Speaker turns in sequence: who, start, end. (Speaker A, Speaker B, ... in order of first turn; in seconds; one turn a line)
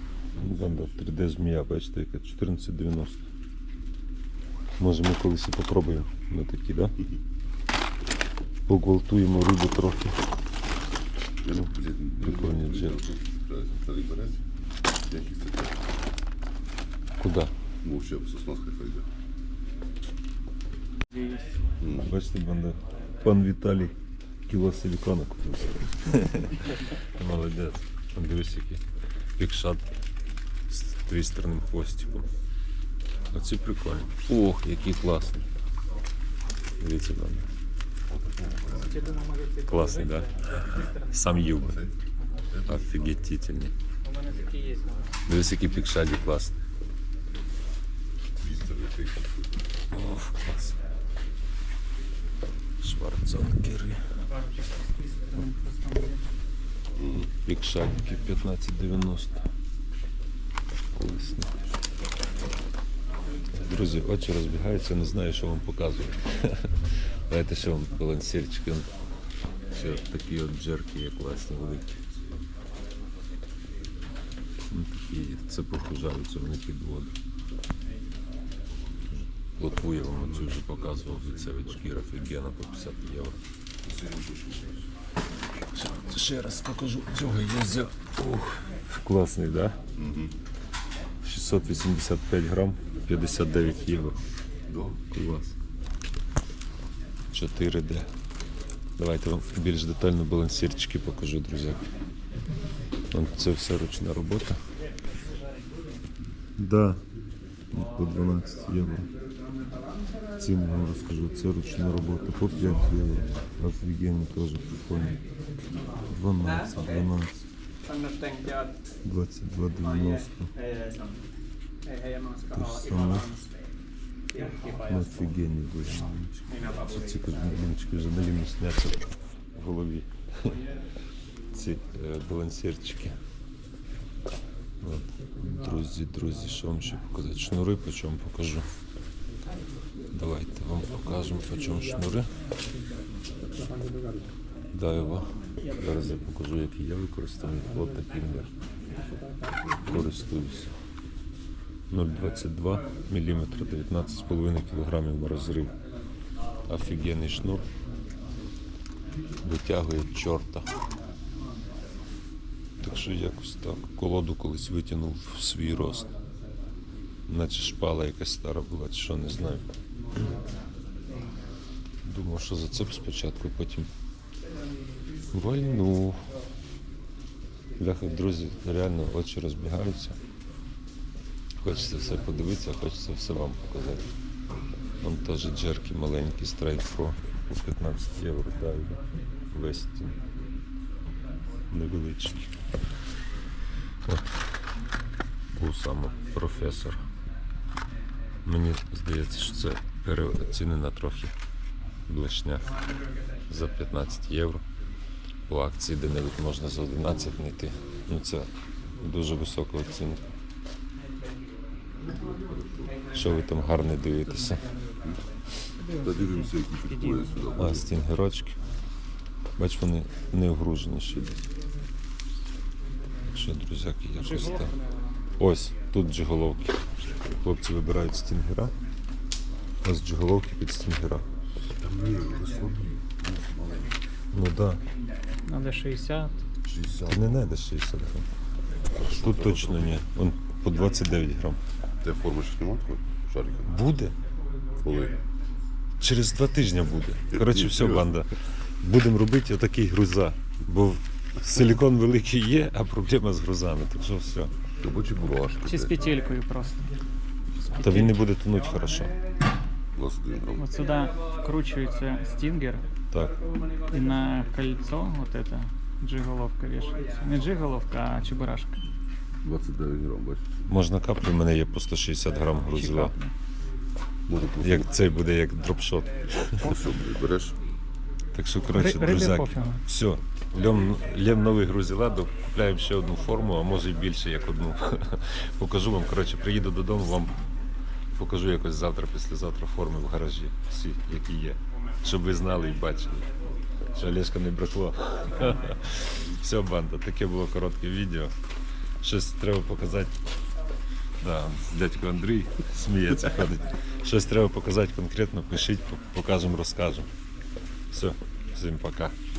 Speaker A: 0.4-3.3
Speaker A: 4.8-7.0
Speaker A: 8.7-10.2
Speaker B: 11.4-14.4
Speaker A: 12.2-13.0
Speaker B: 15.1-15.9
Speaker A: 17.2-17.5
Speaker B: 17.8-19.1
Speaker B: 21.8-22.1
Speaker A: 21.9-23.9
Speaker A: 24.5-28.8
Speaker A: 29.4-29.9
Speaker A: 30.7-32.3
Speaker A: 33.3-35.5
Speaker A: 36.8-37.5
Speaker B: 38.1-39.1
Speaker C: 38.8-40.6
Speaker A: 39.6-41.9
Speaker B: 42.5-42.8
Speaker A: 42.7-43.7
Speaker C: 44.0-45.1
Speaker A: 45.3-46.5
Speaker B: 48.4-49.6
Speaker A: 49.9-50.8
Speaker A: 52.8-54.0
Speaker C: 54.4-56.3
Speaker B: 57.0-57.3
Speaker A: 57.4-59.4
Speaker A: 60.9-61.5
Speaker A: 63.6-66.7
Speaker A: 67.3-69.0
Speaker A: 69.7-72.0
Speaker A: 74.7-77.2
Speaker A: 79.5-83.4
Speaker B: 80.2-81.7
Speaker B: 83.8-84.8
Speaker A: 85.7-89.8
Speaker B: 90.0-90.4
Speaker A: 91.2-94.2
Speaker B: 94.7-95.0
Speaker A: 95.1-95.6
Speaker A: 97.3-98.1
Speaker A: 99.0-101.8
Speaker A: 103.1-104.6
Speaker A: 106.6-107.0
Speaker A: 107.7-109.1
Speaker A: 110.4-115.2
Speaker A: 116.0-117.5
Speaker A: 119.0-120.5
Speaker A: 122.5-123.4
Speaker A: 124.8-130.6
Speaker A: 131.5-133.2
Speaker A: 134.8-138.7
Speaker A: 140.1-142.3
Speaker A: 144.7-148.6
Speaker A: 149.8-150.7
Speaker A: 151.9-155.8
Speaker A: 156.7-157.7
Speaker A: 159.4-160.7
Speaker A: 162.8-166.1
Speaker A: 167.3-169.7
Speaker A: 172.1-173.9
Speaker A: 175.3-176.2
Speaker A: 177.8-180.2
Speaker A: 181.6-184.1
Speaker A: 185.0-189.0
Speaker A: 189.5-190.2
Speaker A: 191.7-192.5
Speaker A: 195.5-197.0
Speaker A: 198.4-201.3
Speaker A: 202.1-202.7
Speaker A: 203.5-204.6
Speaker A: 205.5-210.2
Speaker B: 212.0-212.9
Speaker A: 213.1-214.7
Speaker C: 215.8-217.5
Speaker B: 215.9-217.9
Speaker A: 217.6-218.6
Speaker A: 219.6-221.5
Speaker A: 223.3-224.8
Speaker C: 224.2-225.2
Speaker A: 225.4-228.8
Speaker A: 229.8-231.3
Speaker B: 231.8-233.9
Speaker A: 234.3-234.8
Speaker C: 235.5-236.4
Speaker B: 236.7-237.5
Speaker A: 237.0-238.3
Speaker B: 238.9-240.0
Speaker A: 239.0-241.6
Speaker B: 242.0-243.8
Speaker A: 243.7-244.2
Speaker B: 244.8-245.2
Speaker A: 246.0-254.5
Speaker B: 247.3-248.1
Speaker B: 254.8-256.2
Speaker C: 255.6-256.9
Speaker B: 257.6-257.9
Speaker A: 257.7-259.1
Speaker C: 257.8-258.1
Speaker B: 259.9-260.8
Speaker C: 260.6-262.9
Speaker A: 263.1-263.4
Speaker C: 263.9-268.8
Speaker B: 269.4-270.5
Speaker A: 270.7-273.1
Speaker C: 272.7-273.3
Speaker B: 274.3-274.9
Speaker A: 274.5-276.7
Speaker B: 276.6-277.6
Speaker A: 278.3-287.4
Speaker C: 278.7-279.8
Speaker A: 288.2-293.3
Speaker A: 293.9-298.3
Speaker A: 299.0-300.1
Speaker A: 301.2-307.1
Speaker A: 307.9-309.1